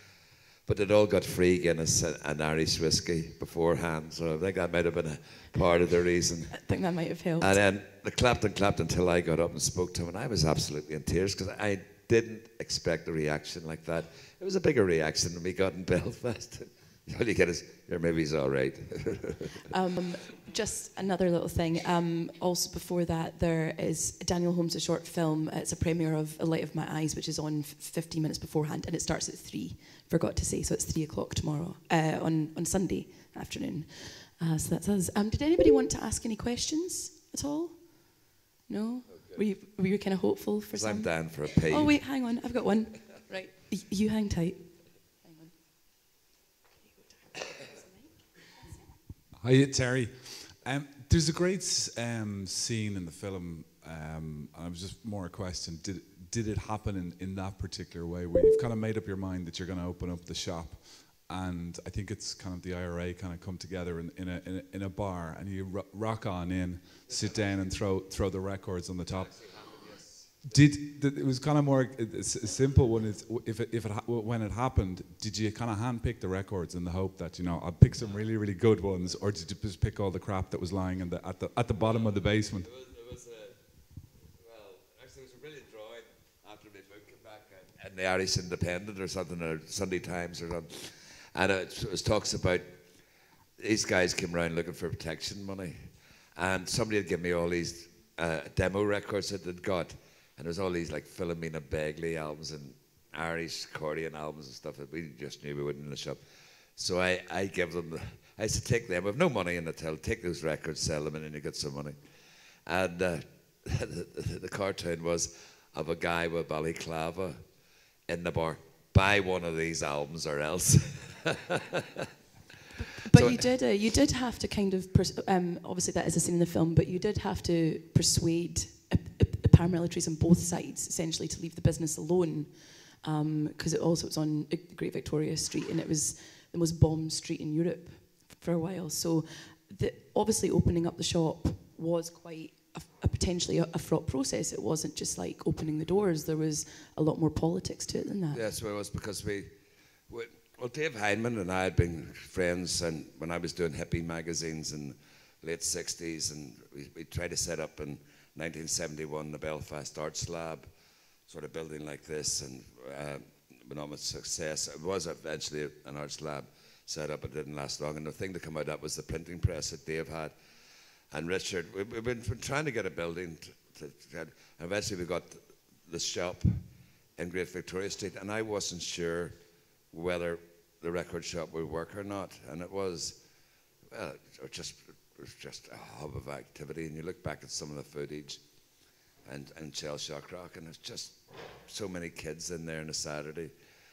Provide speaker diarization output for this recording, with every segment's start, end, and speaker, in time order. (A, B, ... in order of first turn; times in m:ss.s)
0:00.6-0:06.6 A
0:06.5-0:07.5 B
0:07.4-0:19.6 A
0:19.7-0:45.5 B
0:40.7-0:41.9 A
0:46.8-0:48.2 B
0:49.4-1:09.6 C
1:09.4-1:10.3 A
1:10.4-1:22.7 C
1:22.6-1:23.6 A
1:24.4-1:32.8 A
1:33.6-1:35.8 A
1:36.4-1:46.2 A
1:46.8-1:52.0 A
1:52.6-1:57.4 A
1:58.1-2:02.1 A
2:03.0-2:03.4 A
2:03.1-2:28.4 B
2:28.3-2:29.5 A
2:30.1-2:40.7 A
2:41.3-2:50.3 A
2:51.1-2:56.6 A
2:57.2-2:59.4 A
2:59.9-3:03.2 A
3:03.9-3:08.4 A
3:09.2-3:13.5 A